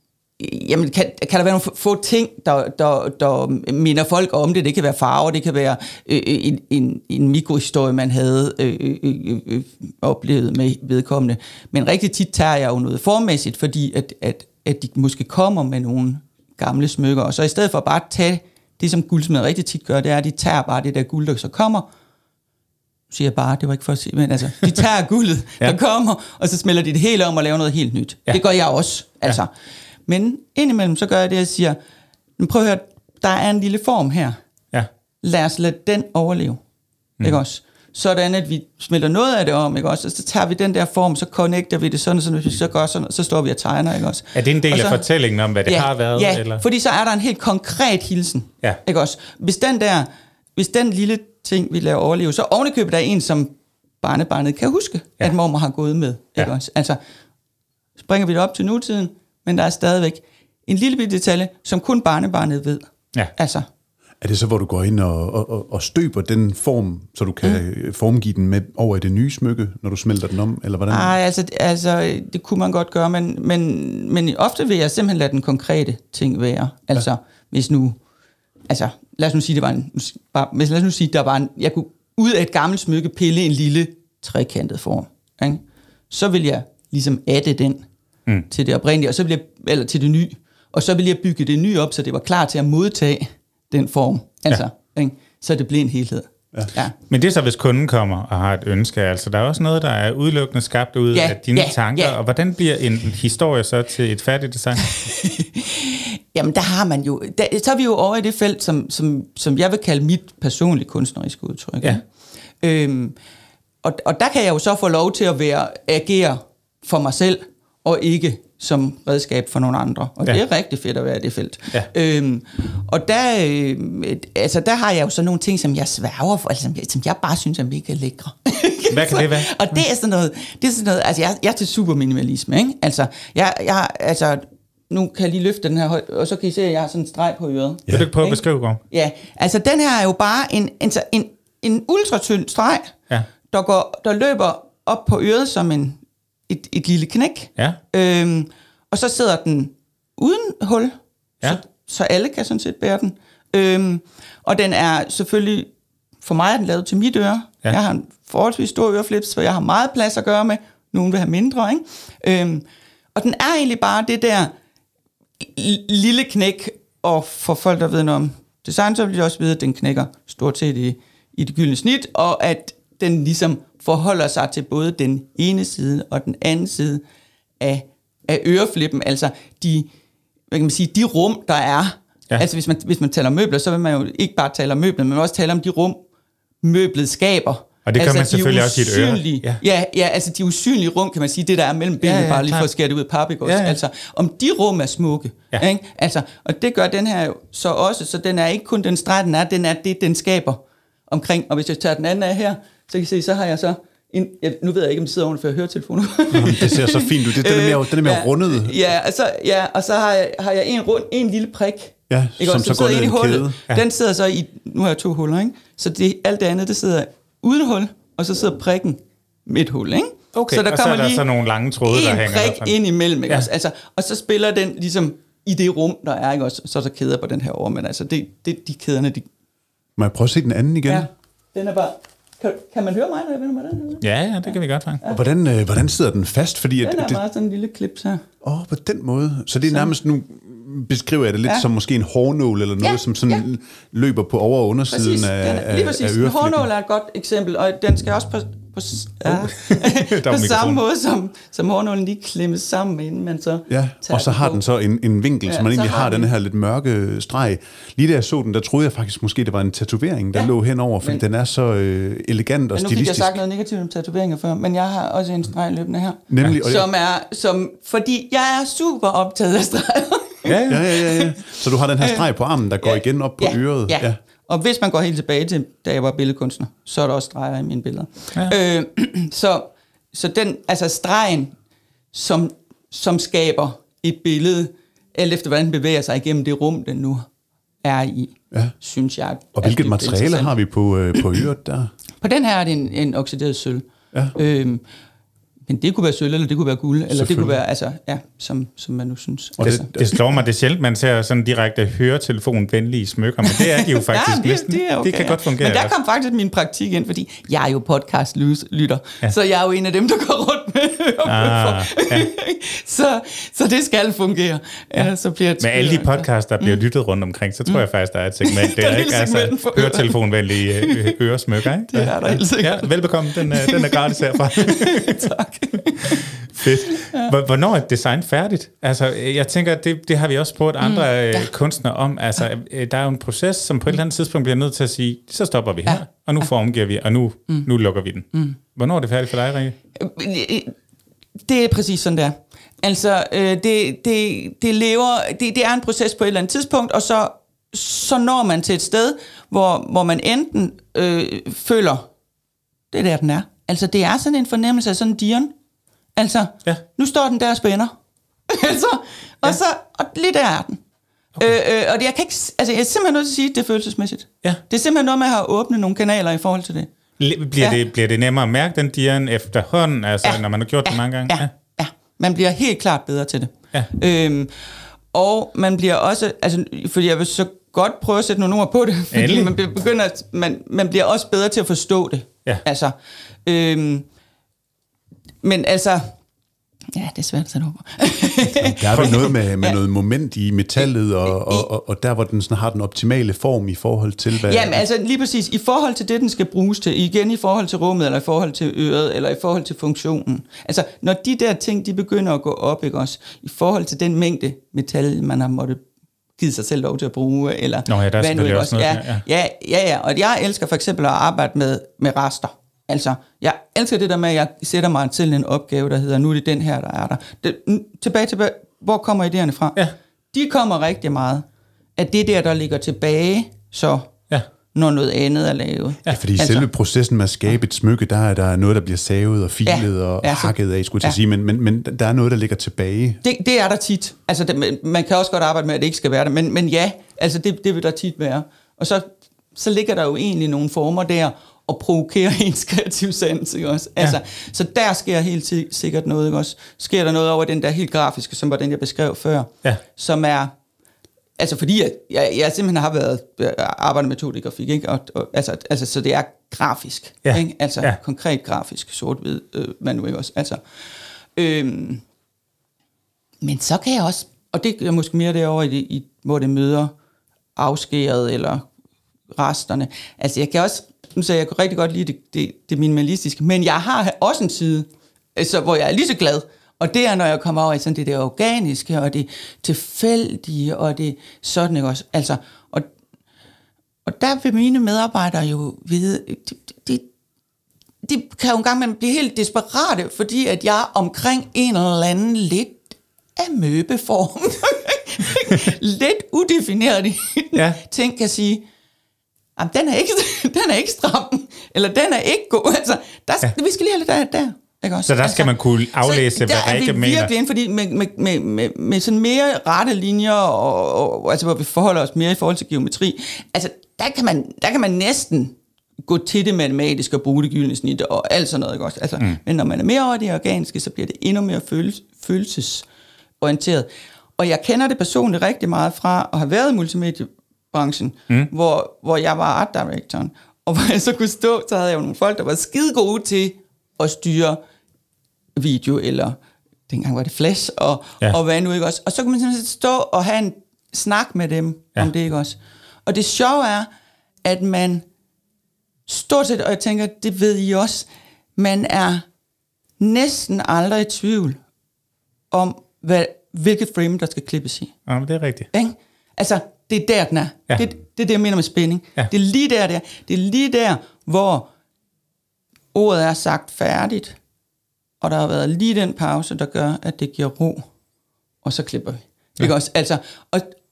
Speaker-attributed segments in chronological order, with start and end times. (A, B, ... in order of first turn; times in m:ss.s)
0:00.4-0:21.9 A
0:23.1-0:29.5 A
0:30.1-0:31.8 A
0:32.4-0:34.4 A
0:35.2-0:36.6 A
0:37.2-0:45.0 A
0:44.3-0:46.6 B
0:45.6-0:57.0 A
0:58.0-1:03.7 A
1:04.2-1:11.2 C
1:10.9-1:18.0 A
1:18.7-1:27.8 A
1:28.5-1:36.9 A
1:37.1-1:44.9 B
1:41.1-1:42.2 A
1:44.9-1:52.0 A
1:52.6-1:53.1 A
1:53.8-2:23.0 A
2:08.9-2:09.8 B
2:17.9-2:18.8 B
2:23.5-2:35.7 A
2:36.2-2:44.5 A
2:45.4-2:57.0 A
2:57.6-2:59.9 A
3:00.5-3:06.0 A
3:06.6-3:41.2 A
3:07.8-3:09.6 B
3:12.0-3:12.7 B
3:13.4-3:13.8 B
3:26.3-3:28.8 C
3:32.1-3:33.6 C
3:40.3-3:42.8 B
3:41.9-3:49.3 A
3:50.0-3:51.1 C
3:50.9-3:55.2 A
3:54.0-3:55.0 B
3:55.1-3:57.2 C
3:56.8-3:58.2 A
3:58.4-4:06.6 C
4:02.8-4:03.4 A
4:04.9-4:14.6 A
4:09.2-4:10.8 B
4:13.7-4:23.4 C
4:15.4-4:16.3 A
4:20.3-4:21.2 A
4:22.7-4:32.2 A
4:26.3-4:26.9 C
4:30.4-4:30.8 B
4:30.7-4:34.2 C
4:32.8-4:41.5 A
4:42.1-4:47.2 A
4:47.8-4:50.5 A
4:49.5-4:51.9 C
4:52.2-4:53.8 A
4:54.4-4:54.8 A
4:55.7-4:59.9 A
4:57.1-4:57.6 C
4:59.6-5:00.2 C
5:00.0-5:05.9 B
5:03.5-5:16.8 A
5:11.2-5:12.3 B
5:15.6-5:25.2 B
5:18.4-5:20.2 A
5:20.7-5:21.1 A
5:21.9-5:26.2 A
5:26.5-5:39.8 B
5:27.0-5:27.3 A
5:30.8-5:31.5 A
5:35.8-5:36.4 A
5:40.0-5:40.7 A
5:41.4-5:52.1 A
5:52.9-5:55.5 A
5:56.2-5:57.9 A
5:58.5-6:00.8 A
6:01.4-6:06.9 A
6:07.2-6:11.5 B
6:10.2-6:14.5 A
6:15.1-6:22.9 A
6:19.1-6:19.5 B
6:23.4-6:24.0 A
6:25.4-6:26.1 A
6:26.9-6:29.8 A
6:28.5-6:34.8 C
6:28.9-6:29.2 B
6:31.2-6:31.7 A
6:34.4-6:45.8 A
6:46.4-6:59.8 A
6:47.9-6:49.2 B
7:00.3-7:01.4 A
7:02.0-7:04.1 A
7:04.7-7:06.7 A
7:06.1-7:13.2 C
7:09.6-7:11.2 A
7:13.2-7:30.5 A
7:31.4-7:40.6 A
7:37.2-7:38.0 B
7:41.4-7:42.0 A
7:43.4-7:46.9 A
7:47.6-7:48.6 A
7:49.3-8:02.9 A
8:04.0-8:07.1 A
8:08.0-8:12.8 A
8:13.4-8:18.6 A
8:19.6-8:42.8 A
8:25.0-8:27.3 B
8:43.4-8:54.6 A
8:55.6-9:03.9 A
9:04.4-9:05.0 A
9:06.1-9:09.2 A
9:10.0-9:11.6 A
9:12.5-9:14.9 A
9:15.1-9:15.7 B
9:15.7-9:21.7 A
9:22.9-9:24.4 A
9:25.2-9:27.9 A
9:28.6-9:30.7 A